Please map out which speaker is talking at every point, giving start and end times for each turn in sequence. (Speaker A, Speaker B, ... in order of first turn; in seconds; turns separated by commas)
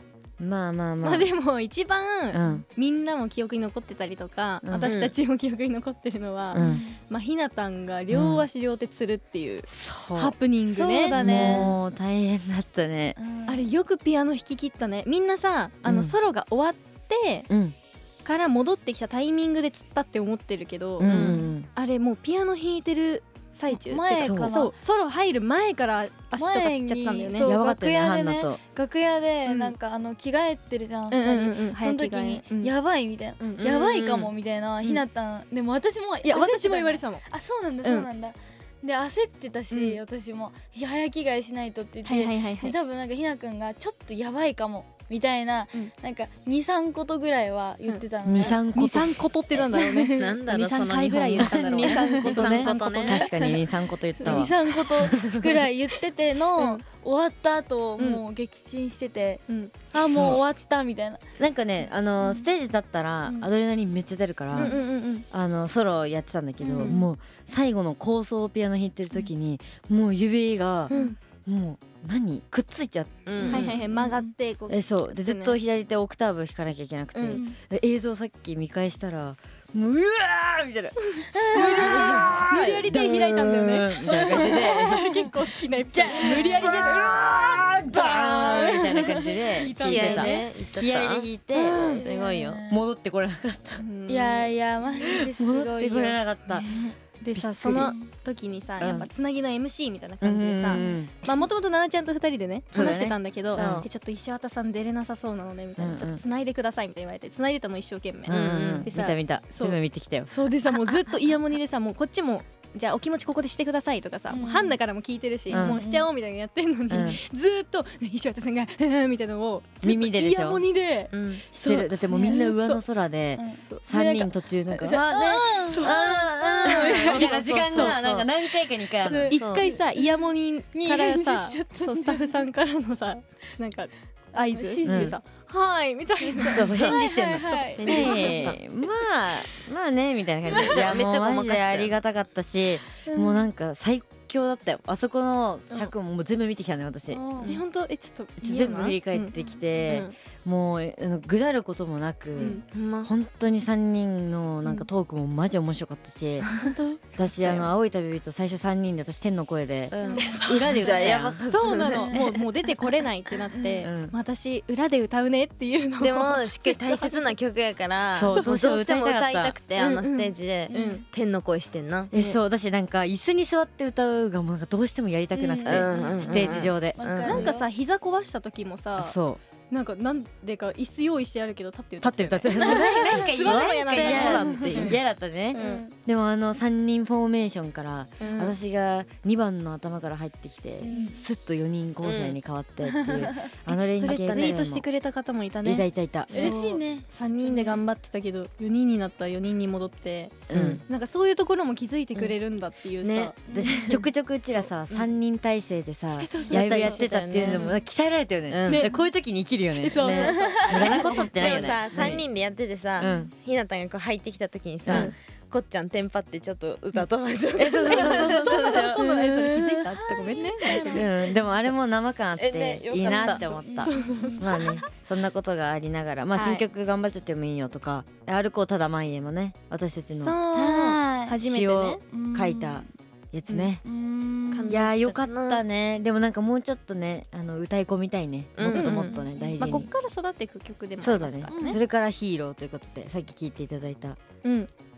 Speaker A: 0.4-1.3, Speaker B: 1.0-11.7, Speaker A: 2.3-2.6, Speaker A: 4.6-5.0, Speaker C: 4.8-5.2, Speaker A: 6.5-6.8, Speaker D: 6.6-7.0, Speaker A: 8.1-8.5, Speaker A: 9.7-10.3, Speaker D: 10.7-11.8, Speaker A: 11.1-13.2, Speaker D: 13.2-13.7, Speaker B: 13.5-17.5, Speaker A: 15.8-16.2, Speaker A: 17.5-17.8, Speaker B: 18.2-27.5, Speaker A: 21.0-21.7, Speaker C: 21.1-21.4, Speaker D: 23.7-24.7, Speaker A: 24.2-24.5, Speaker D: 26.4-48.6, Speaker A: 27.4-28.6, Speaker B: 29.5-29.7, Speaker B: 31.1-32.7, Speaker B: 33.4-35.0, Speaker B: 36.2-37.3, Speaker B: 37.8-38.1, Speaker B: 39.7-40.0, Speaker B: 42.0-42.8, Speaker B: 47.9-53.7, Speaker A: 48.2-49.2, Speaker C: 49.6-53.3, Speaker A: 51.4-55.1, Speaker B: 54.2-54.5, Speaker D: 54.2-61.2, Speaker B: 56.6-56.8, Speaker B: 59.5-59.9, Speaker A: 60.1-60.4, Speaker A: 61.4-64.8, Speaker D: 62.2-62.5, Speaker B: 64.5-65.3, Speaker A: 65.3-70.9, Speaker D: 66.6-67.0, Speaker B: 66.8-67.1, Speaker B: 70.9-71.2, Speaker A: 71.5-73.5, Speaker C: 73.3-73.8, Speaker D: 73.4-74.3, Speaker B: 73.5-75.6, Speaker A: 74.7-85.1, Speaker B: 77.2-77.4, Speaker D: 77.3-77.6, Speaker B: 81.2-87.3, Speaker D: 81.3-82.0, Speaker D: 84.1-84.9, Speaker D: 85.9-87.2, Speaker A: 86.2-92.0, Speaker B: 87.9-90.5, Speaker D: 88.5-89.2, Speaker C: 89.8-91.3, Speaker B: 91.6-92.0, Speaker D: 91.8-92.8, Speaker C: 91.9-92.6, Speaker A: 92.7-93.8, Speaker B: 93.8-94.5, Speaker D: 94.1-96.9, Speaker A: 95.0-96.7, Speaker B: 96.7-109.8, Speaker A: 97.3-97.9, Speaker D: 97.8-98.1, Speaker A: 98.8-99.1, Speaker A: 100.2-101.3, Speaker A: 102.7-103.8, Speaker C: 103.5-103.9, Speaker A: 105.8-106.2, Speaker C: 108.3-108.9, Speaker A: 108.3-110.3, Speaker B: 110.3-122.8, Speaker D: 114.3-114.8, Speaker A: 115.5-115.8, Speaker D: 115.5-116.1, Speaker A: 116.9-117.2, Speaker A: 119.8-120.6, Speaker C: 121.1-121.4, Speaker A: 121.5-129.4, Speaker D: 122.1-122.4, Speaker D: 123.4-127.3, Speaker B: 125.7-128.0, Speaker C: 126.7-128.3, Speaker D: 129.0-132.4, Speaker B: 129.3-138.6, Speaker C: 129.3-129.7, Speaker D: 134.3-135.2, Speaker A: 134.8-135.2, Speaker D: 136.3-138.2, Speaker A: 136.5-147.4, Speaker C: 137.8-138.6, Speaker C: 140.6-141.9, Speaker D: 143.1-143.4, Speaker D: 147.1-147.6, Speaker B: 147.4-149.3, Speaker A: 148.4-156.6, Speaker B: 149.9-150.1, Speaker B: 152.4-152.6, Speaker C: 152.5-153.1, Speaker B: 156.4-157.6, Speaker A: 157.2-161.4, Speaker C: 159.9-162.4, Speaker D: 160.0-160.4, Speaker B: 160.2-167.3, Speaker D: 161.9-162.2, Speaker D: 163.5-163.9, Speaker A: 163.8-164.2, Speaker C: 166.0-172.1, Speaker A: 168.1-169.6, Speaker B: 169.8-171.0, Speaker D: 170.7-171.0, Speaker B: 172.1-172.4, Speaker A: 172.1-177.0, Speaker D: 175.3-177.7, Speaker C: 175.7-177.5, Speaker B: 177.2-179.2, Speaker A: 179.0-179.4, Speaker B: 179.7-185.0, Speaker A: 182.0-194.8, Speaker D: 182.6-183.2, Speaker C: 183.3-185.0, Speaker B: 185.5-185.8, Speaker D: 185.5-185.9, Speaker B: 188.2-188.6, Speaker D: 190.8-191.2, Speaker B: 190.9-191.2, Speaker C: 192.0-192.4, Speaker D: 193.1-193.5, Speaker B: 193.7-203.4, Speaker A: 195.6-196.6, Speaker D: 196.3-197.8, Speaker A: 200.5-200.8, Speaker C: 200.5-200.8, Speaker C: 203.0-204.0, Speaker D: 203.5-203.9, Speaker A: 203.5-212.2, Speaker B: 206.2-207.7, Speaker C: 206.5-207.8, Speaker C: 208.5-208.9, Speaker B: 208.7-209.0, Speaker B: 209.8-212.1, Speaker D: 210.1-211.3, Speaker C: 211.3-218.5, Speaker A: 213.0-213.3, Speaker A: 214.9-215.1, Speaker B: 214.9-215.1, Speaker A: 217.6-219.0, Speaker B: 217.8-221.1, Speaker D: 219.0-221.1, Speaker A: 220.8-230.4, Speaker C: 222.4-223.6, Speaker B: 223.2-224.8, Speaker D: 223.6-224.6, Speaker B: 226.3-226.6, Speaker B: 230.2-232.0, Speaker D: 230.5-231.4, Speaker A: 231.4-233.8, Speaker D: 232.1-232.9, Speaker D: 233.8-234.8, Speaker C: 234.5-235.6, Speaker A: 234.7-239.9, Speaker C: 238.6-239.1, Speaker B: 238.7-241.8, Speaker A: 241.0-244.2, Speaker D: 241.5-241.8, Speaker B: 244.4-244.7